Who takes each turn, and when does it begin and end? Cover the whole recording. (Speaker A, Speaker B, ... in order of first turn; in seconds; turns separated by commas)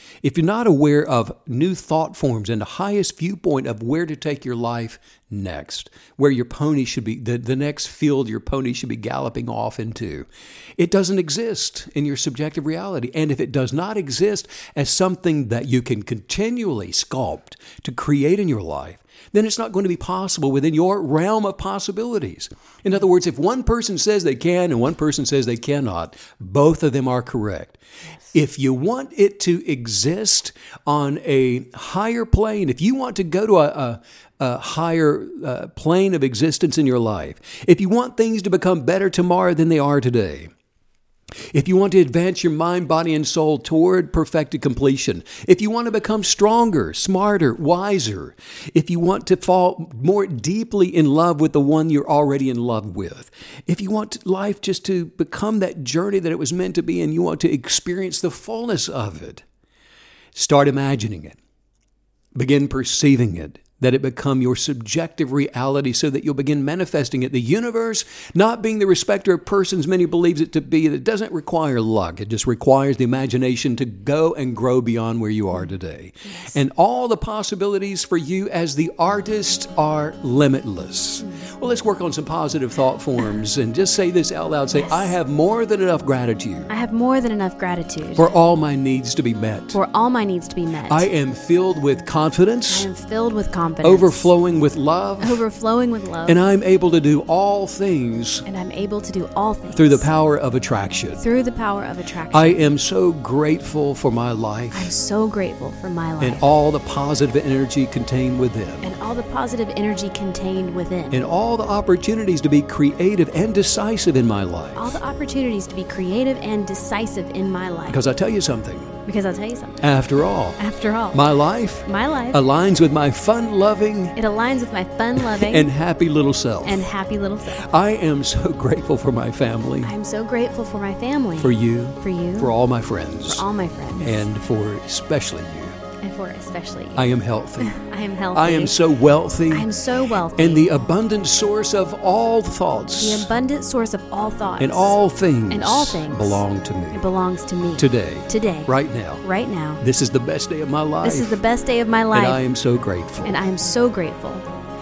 Speaker A: 0.2-27.8, Speaker A: 28.3-40.5, Speaker A: 41.5-59.4, Speaker A: 60.3-61.4, Speaker A: 62.3-86.7, Speaker B: 84.8-85.1, Speaker B: 86.7-88.3, Speaker A: 88.2-89.8, Speaker B: 89.7-91.1, Speaker A: 90.9-92.9, Speaker B: 92.7-94.3, Speaker A: 93.8-95.4, Speaker B: 95.2-96.4, Speaker A: 96.2-98.5, Speaker B: 98.5-100.1, Speaker A: 99.7-101.2, Speaker B: 101.2-102.7, Speaker A: 102.3-104.9, Speaker B: 104.7-106.4, Speaker A: 106.2-108.9, Speaker B: 108.8-111.1, Speaker A: 111.1-115.0, Speaker B: 114.8-118.0, Speaker A: 117.9-119.0, Speaker B: 119.0-119.8, Speaker A: 119.8-120.6, Speaker B: 120.6-121.3, Speaker A: 121.1-124.2, Speaker B: 121.8-122.4, Speaker B: 124.2-125.7, Speaker A: 125.2-126.8, Speaker B: 126.6-127.7, Speaker A: 127.6-129.9, Speaker B: 129.8-132.5, Speaker A: 131.4-133.4, Speaker B: 133.3-134.2, Speaker A: 134.0-135.8, Speaker B: 136.0-138.8, Speaker A: 136.9-137.8, Speaker A: 138.3-139.7, Speaker B: 139.5-140.7, Speaker A: 140.3-143.3, Speaker B: 143.0-145.0, Speaker A: 144.6-147.0, Speaker B: 145.5-149.8, Speaker A: 147.8-149.2, Speaker A: 149.8-151.4, Speaker B: 151.0-152.4, Speaker A: 152.1-153.3, Speaker B: 153.2-154.4